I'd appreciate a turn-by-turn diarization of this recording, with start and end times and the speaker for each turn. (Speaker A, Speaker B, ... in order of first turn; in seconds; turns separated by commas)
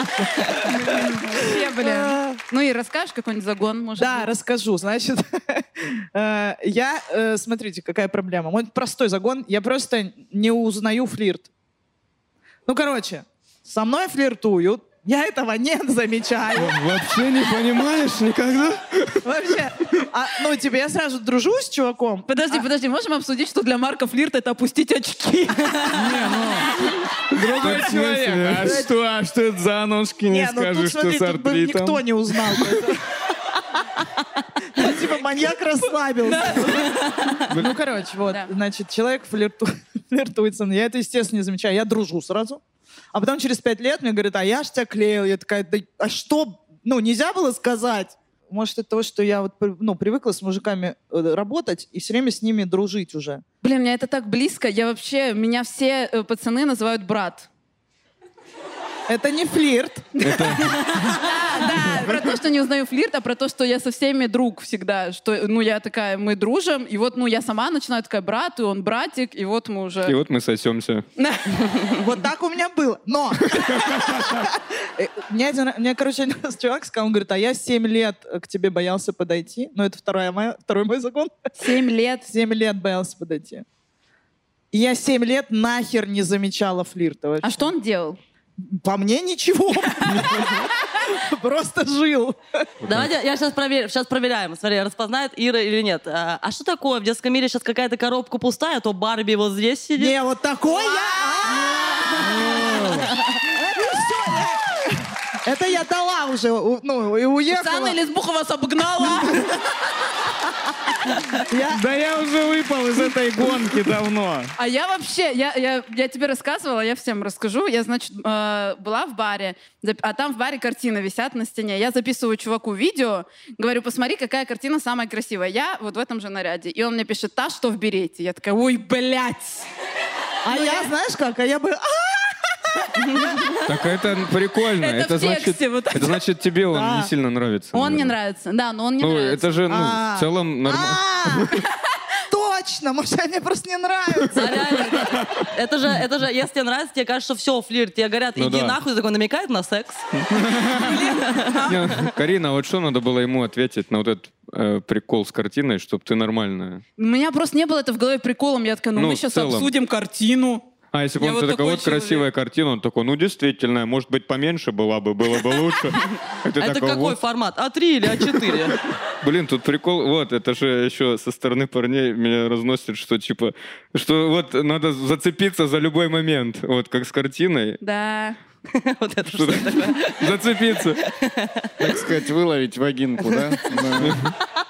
Speaker A: 0.6-2.4, Speaker B: 0.7-4.3, Speaker A: 4.0-11.5, Speaker A: 12.7-16.8, Speaker C: 16.5-19.2, Speaker A: 19.2-22.6, Speaker B: 22.3-26.1, Speaker D: 25.9-26.7, Speaker D: 27.3-32.8, Speaker C: 27.5-28.8, Speaker A: 28.6-28.9, Speaker A: 30.3-33.0, Speaker A: 33.8-34.0, Speaker A: 34.7-42.6, Speaker B: 36.3-37.4, Speaker A: 43.1-53.4, Speaker B: 53.6-57.5, Speaker A: 59.1-60.1, Speaker C: 60.2-60.8, Speaker B: 60.2-70.2, Speaker C: 70.0-71.0, Speaker B: 71.2-71.8, Speaker A: 72.0-81.3, Speaker B: 81.6-82.3, Speaker A: 82.2-83.6, Speaker A: 84.7-87.7, Speaker B: 87.4-88.2, Speaker A: 88.6-92.7, Speaker C: 92.8-93.1, Speaker E: 92.8-100.1, Speaker A: 100.0-108.0, Speaker B: 100.7-102.5, Speaker D: 102.2-103.1, Speaker B: 107.5-109.5, Speaker A: 109.1-109.5, Speaker A: 111.4-111.8, Speaker D: 111.7-114.5, Speaker B: 114.6-129.7, Speaker A: 130.4-133.6, Speaker B: 130.5-130.9, Speaker C: 133.6-138.1, Speaker B: 134.8-136.2, Speaker A: 136.7-137.1, Speaker B: 137.7-139.6, Speaker C: 139.0-141.6, Speaker A: 139.7-141.6, Speaker A: 142.3-144.8, Speaker E: 144.3-150.0, Speaker C: 145.0-145.4, Speaker C: 148.4-148.8, Speaker D: 150.3-150.9, Speaker B: 150.8-151.8, Speaker E: 151.1-152.1, Speaker C: 151.7-156.8, Speaker B: 157.0-160.6, Speaker C: 158.9-159.7, Speaker C: 160.9-167.2, Speaker B: 161.2-162.3, Speaker E: 166.6-168.8, Speaker C: 169.2-177.8, Speaker B: 177.8-178.4, Speaker E: 178.7-180.3, Speaker C: 179.3-181.0, Speaker E: 181.0-181.7, Speaker D: 181.8-184.2, Speaker C: 184.0-184.3